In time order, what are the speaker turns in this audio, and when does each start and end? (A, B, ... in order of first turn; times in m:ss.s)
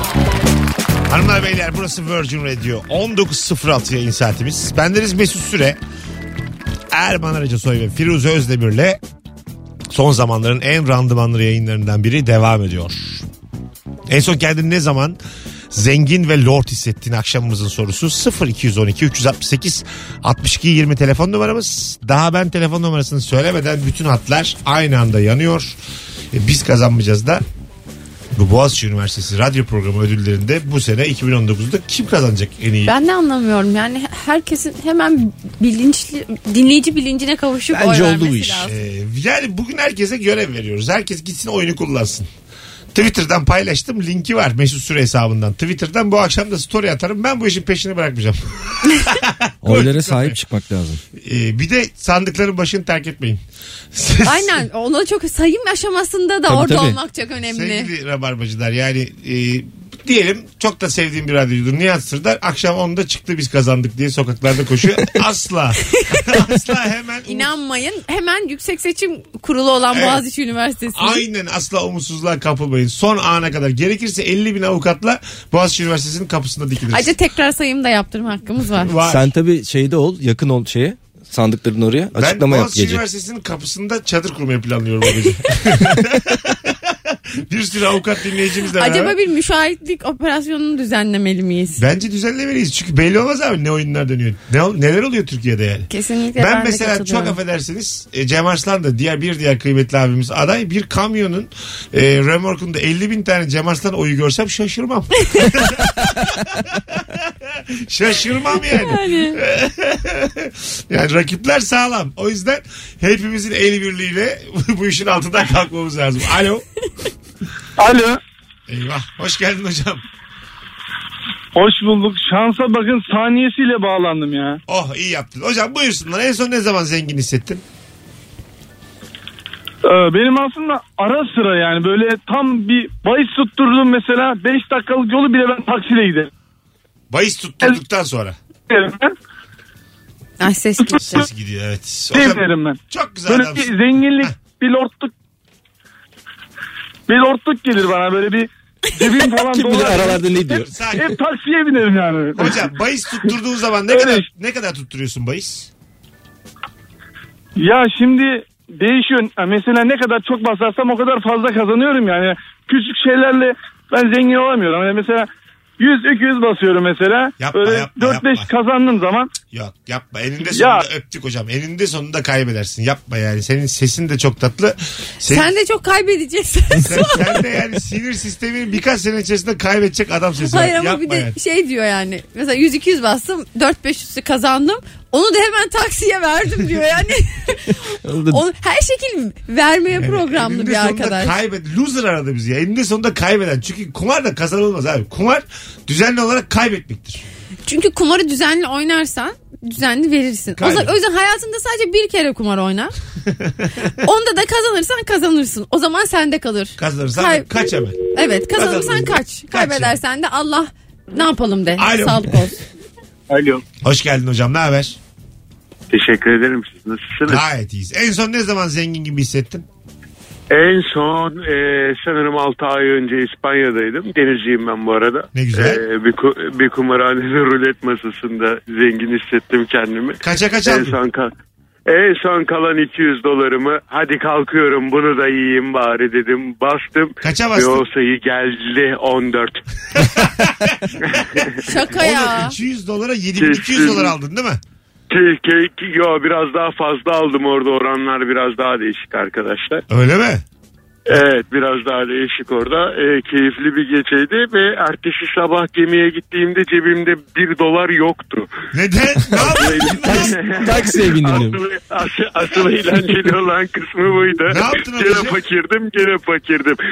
0:01.1-0:05.8 A
0:06.9-0:09.0 A
0:09.9-0:13.3 A
0:14.1-0:15.2 A
0:15.7-0:25.8 A
0:26.3-0:27.4 A
0:28.3-0:32.9 A
0:32.9-0:38.8 B
0:37.7-0:38.7 C
0:38.6-0:42.3 A
0:42.9-0:50.4 A
0:49.6-0:51.0 C
0:51.2-0:53.4 A
0:53.9-0:54.6 A
0:54.2-0:57.9 B
0:56.4-0:57.0 C
0:57.4-1:07.5 A
1:06.0-1:06.4 B
1:07.3-1:11.3 B
1:09.9-1:10.2 A
1:10.9-1:17.1 A
1:16.9-1:18.9 B
1:18.8-1:19.3 A
1:19.0-1:23.0 C
1:22.2-1:29.2 A
1:28.7-1:31.8 B
1:31.8-1:56.6 A
1:35.9-1:37.4 B
1:48.5-1:49.4 B
1:57.8-1:58.2 D
1:58.7-2:00.0 A
2:01.6-2:04.6 D
2:04.7-2:07.6 A
2:09.8-2:16.3 D
2:17.1-2:18.4 A
2:18.7-2:19.1 D
2:20.4-2:21.3 B
2:21.0-2:24.4 A
2:22.1-2:25.1 D
2:27.1-2:32.6 D
2:29.4-2:30.7 C
2:30.5-2:31.1 A
2:32.4-2:35.7 A
2:33.9-2:34.2 D
2:37.6-2:49.3 D
2:47.4-2:48.5 A
2:49.5-2:55.5 A
2:50.5-2:50.9 D
2:55.3-2:57.4 B
2:56.8-3:01.3 A
3:00.4-3:07.6 B
3:08.0-3:08.4 C
3:08.3-3:11.4 B
3:10.0-3:17.2 A
3:17.7-3:22.9 B
3:20.6-3:21.0 A
3:23.3-3:23.9 A
3:24.0-3:27.5 B
3:26.8-3:28.0 A
3:28.1-3:32.6 B
3:28.5-3:30.0 A
3:31.8-3:32.5 A
3:33.8-3:35.0 A
3:35.9-3:37.4 E
3:37.3-3:39.7 A
3:40.5-3:51.3 E
3:45.3-3:45.8 A
3:50.2-3:51.0 A
3:51.9-3:59.6 E
3:57.2-3:57.8 A
4:00.1-4:00.8 A
4:01.0-4:01.6 E
4:01.4-4:04.6 A
4:01.7-4:02.6 B
4:03.4-4:04.1 E
4:05.1-4:09.8 E
4:09.9-4:10.4 A
4:11.1-4:18.5 E
4:18.7-4:20.4 A
4:19.3-4:21.6 C
4:19.5-4:26.8 E
4:24.5-4:25.4 A